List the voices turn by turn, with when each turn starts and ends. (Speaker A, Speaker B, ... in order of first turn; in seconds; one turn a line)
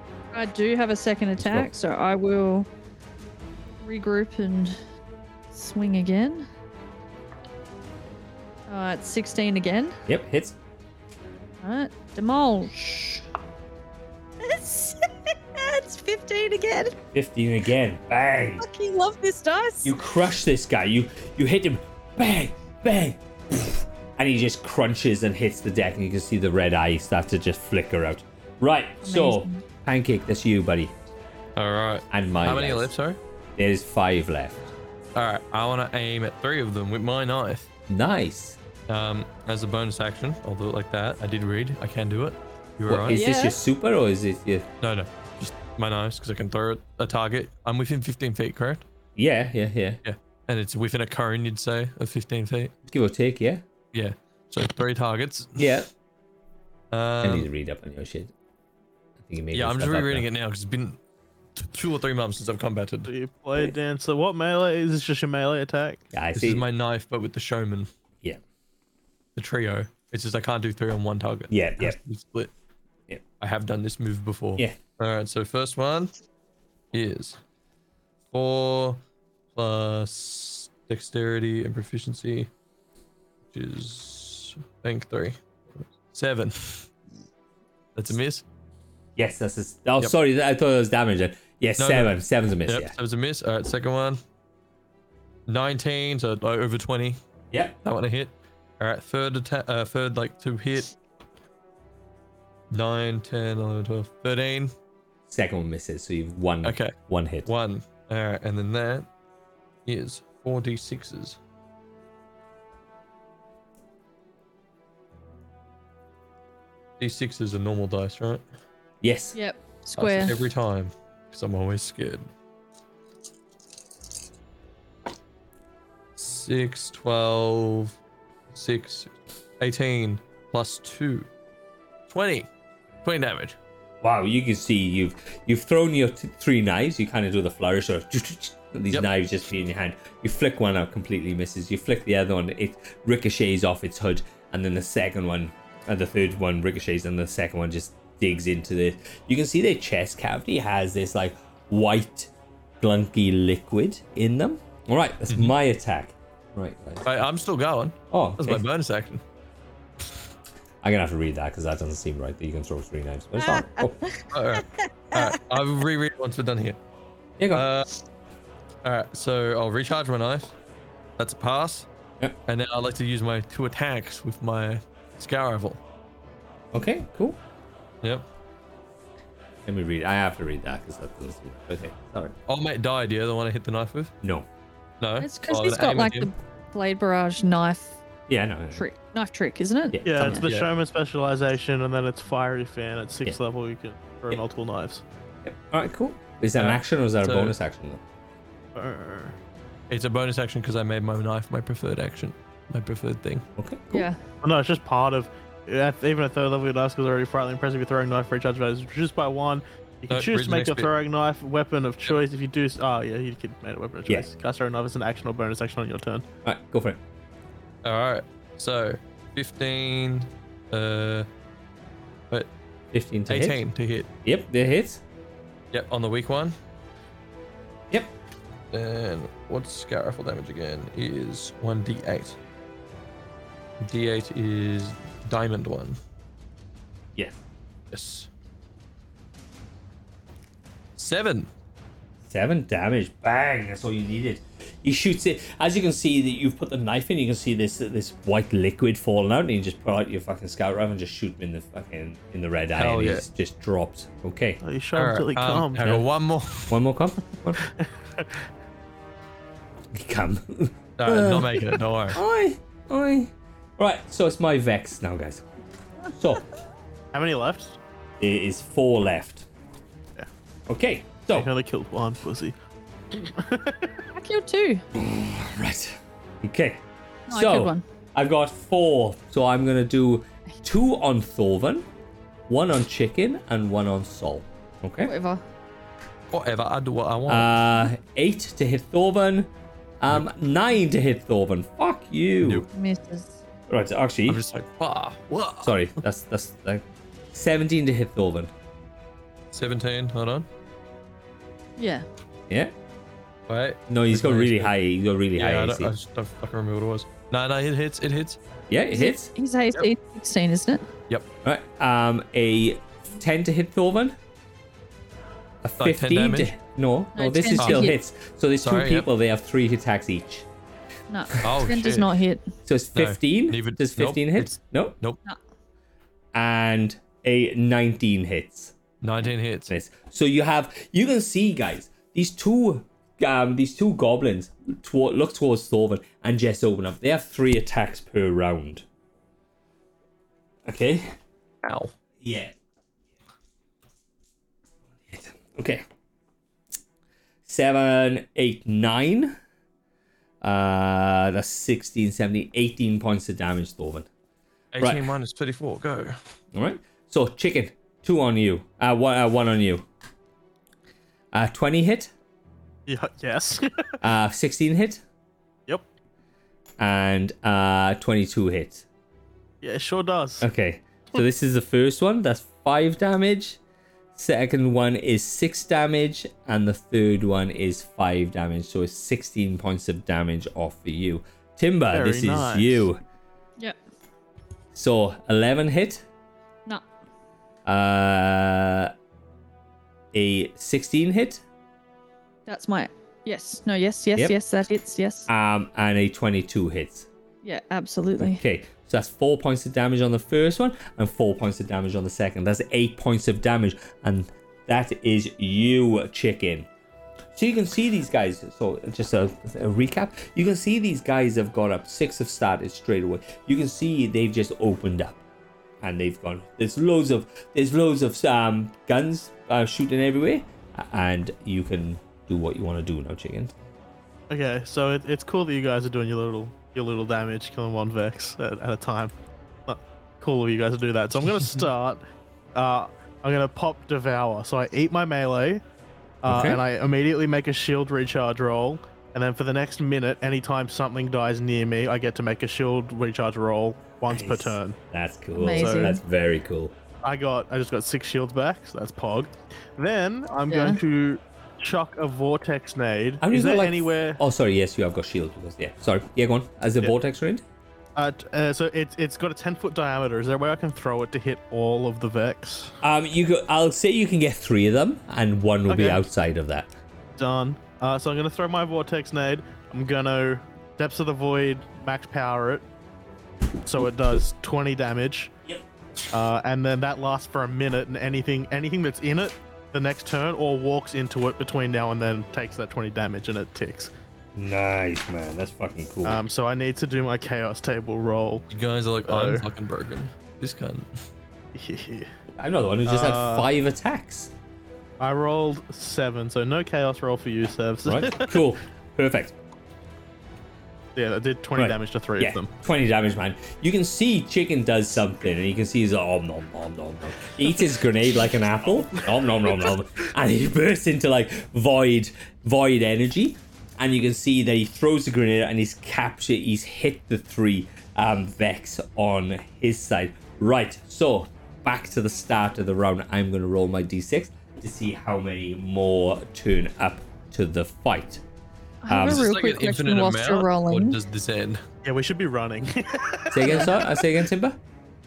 Speaker A: 0.3-2.7
Speaker B: 1.4-1.7
Speaker A: 3.8-4.8
Speaker A: 5.5-6.5
Speaker A: 8.7-10.0
Speaker B: 10.1-10.5
Speaker A: 11.6-12.8
Speaker B: 12.8-13.2
Speaker A: 14.4-17.0
Speaker B: 17.1-18.6
Speaker A: 18.6-19.9
Speaker B: 19.8-30.9
Speaker A: 29.0-29.6
Speaker C: 31.6-33.2
Speaker B: 32.1-32.9
Speaker B: 33.5-34.7
Speaker C: 35.1-37.7
Speaker B: 37.9-38.6
Speaker C: 38.9-43.2
Speaker B: 42.9-44.7
Speaker A: 43.1-43.6
Speaker C: 44.8-48.8
Speaker B: 49.1-50.0
Speaker C: 50.0-52.7
Speaker B: 52.9-53.6
Speaker C: 53.9-55.7
Speaker B: 55.6-55.9
Speaker C: 56.9-57.5
Speaker B: 57.2-58.3
Speaker B: 59.2-60.2
Speaker C: 59.5-61.0
Speaker C: 61.5-63.1
Speaker D: 63.1-66.0
Speaker B: 66.1-66.6
Speaker C: 66.3-67.9
Speaker C: 69.3-72.5
Speaker B: 71.5-72.0
Speaker C: 73.4-76.1
Speaker C: 76.9-77.4
Speaker C: 78.3-79.0
Speaker C: 79.5-82.5
Speaker C: 83.5-86.9
Speaker C: 87.9-88.4
Speaker B: 89.2-92.9
Speaker C: 91.8-94.2
Speaker C: 95.5-97.2
Speaker B: 97.5-97.8
Speaker C: 97.8-100.9
Speaker C: 102.7-104.7
Speaker B: 105.3-107.5
Speaker C: 106.6-106.9
Speaker C: 107.5-109.1
Speaker C: 109.8-111.4
Speaker C: 117.0-118.4
Speaker B: 119.0-119.3
Speaker A: 119.3-120.3
Speaker C: 120.0-122.3
Speaker C: 126.2-127.9
Speaker C: 128.5-131.3
Speaker C: 132.1-132.5
Speaker C: 133.0-133.6
Speaker B: 134.0-157.1
Speaker C: 157.0-159.2
Speaker B: 158.1-158.6
Speaker B: 160.8-164.0
Speaker A: 163.4-165.3
Speaker C: 164.3-166.8
Speaker B: 167.4-167.6
Speaker C: 167.5-167.9
Speaker C: 168.8-170.5
Speaker C: 171.2-171.9
Speaker C: 172.5-175.8
Speaker B: 176.7-177.4
Speaker B: 179.7-182.3
Speaker C: 182.5-184.1
Speaker B: 184.2-184.5
Speaker C: 185.0-186.3
Speaker A: 185.2-188.0
Speaker B: 188.3-188.8
Speaker A: 188.7-190.4
Speaker B: 189.9-190.4
Speaker D: 190.0-195.0
Speaker C: 190.3-190.7
Speaker B: 195.4-198.0
Speaker C: 196.5-197.5
Speaker D: 198.7-199.4
Speaker C: 199.9-203.4
Speaker B: 203.6-204.1
Speaker A: 203.9-204.2
Speaker D: 204.4-216.2
Speaker C: 210.1-210.9
Speaker B: 216.4-217.0
Speaker C: 217.8-221.3
Speaker B: 222.9-223.6
Speaker C: 223.3-224.1
Speaker B: 224.2-225.0
Speaker C: 225.7-226.5
Speaker C: 228.7-232.4
Speaker C: 233.8-236.0
Speaker C: 237.9-238.3
Speaker C: 240.9-241.5
Speaker B: 242.2-254.6
Speaker C: 252.8-253.2
Speaker D: 254.6-256.0
Speaker C: 254.9-256.8
Speaker B: 256.7-257.6
Speaker D: 257.6-258.4
Speaker B: 259.9-265.4
Speaker C: 261.0-262.2
Speaker B: 266.1-266.5
Speaker D: 267.1-267.8
Speaker B: 268.2-269.5
Speaker B: 270.7-271.5
Speaker D: 271.3-272.5
Speaker D: 273.1-274.0
Speaker A: 274.1-274.8
Speaker B: 274.9-281.9
Speaker A: 277.3-277.8
Speaker B: 282.5-285.1
Speaker A: 285.0-285.4
Speaker C: 286.3-287.6
Speaker B: 287.3-292.7
Speaker A: 292.7-293.4
Speaker B: 293.7-294.4
Speaker C: 294.3-295.9
Speaker B: 295.6-298.5
Speaker C: 299.5-300.5
Speaker A: 301.8-302.1
Speaker C: 303.5-304.7
Speaker B: 303.9-305.9
Speaker C: 305.4-308.4
Speaker B: 308.7-309.3
Speaker A: 308.9-310.9
Speaker B: 311.4-314.2
Speaker B: 315.6-320.5
Speaker C: 315.8-316.5
Speaker A: 317.1-318.0
Speaker C: 317.6-317.9
Speaker C: 318.6-319.1
Speaker A: 321.1-322.5
Speaker C: 321.4-322.1
Speaker B: 322.6-325.0
Speaker C: 322.9-325.2
Speaker B: 326.3-328.8
Speaker C: 329.0-329.7
Speaker B: 329.7-338.8
Speaker B: 340.6-341.1
Speaker C: 341.6-341.9
Speaker B: 342.2-342.5
Speaker B: 345.1-345.8
Speaker B: 347.4-349.4
Speaker B: 350.4-354.1
Speaker C: 354.7-356.2
Speaker B: 354.8-355.1
Speaker B: 356.5-359.9
Speaker B: 361.3-362.1
Speaker D: 362.9-364.0
Speaker B: 364.0-365.0
Speaker B: 366.8-368.9
Speaker D: 369.6-370.5
Speaker B: 370.4-373.6
Speaker B: 374.1-383.0
Speaker D: 381.9-382.8
Speaker B: 384.7-386.0
Speaker B: 387.6-388.9
Speaker B: 390.1-391.4
Speaker A: 392.4-395.3
Speaker B: 395.3-397.1
Speaker A: 397.4-398.4
Speaker B: 398.2-406.7
Speaker B: 407.3-415.2
Speaker B: 415.8-423.5
Speaker D: 424.3-429.1
Speaker D: 429.6-432.0
Speaker D: 432.5-435.6
Speaker D: 436.2-444.8
Speaker B: 436.2-436.6
Speaker B: 444.1-446.7
Speaker A: 445.4-446.0
Speaker D: 445.6-446.0
Speaker D: 447.0-454.2
Speaker A: 450.5-450.8
Speaker B: 453.2-457.4
Speaker D: 457.9-462.7
Speaker B: 462.8-466.7
Speaker D: 465.7-466.0
Speaker D: 467.2-472.6
Speaker D: 473.6-475.3
Speaker D: 476.1-483.9
Speaker B: 484.3-486.2
Speaker D: 486.0-488.4
Speaker C: 488.5-490.9
Speaker D: 489.1-489.4
Speaker D: 491.5-492.1
Speaker B: 492.4-494.3
Speaker D: 492.9-493.5
Speaker D: 495.0-498.4
Speaker B: 497.8-499.3
Speaker D: 500.9-502.5
Speaker B: 501.6-528.2
Speaker D: 509.5-509.8
Speaker A: 528.8-531.0
Speaker B: 528.9-529.3
Speaker C: 528.9-531.6
Speaker D: 531.8-534.0
Speaker B: 533.3-534.6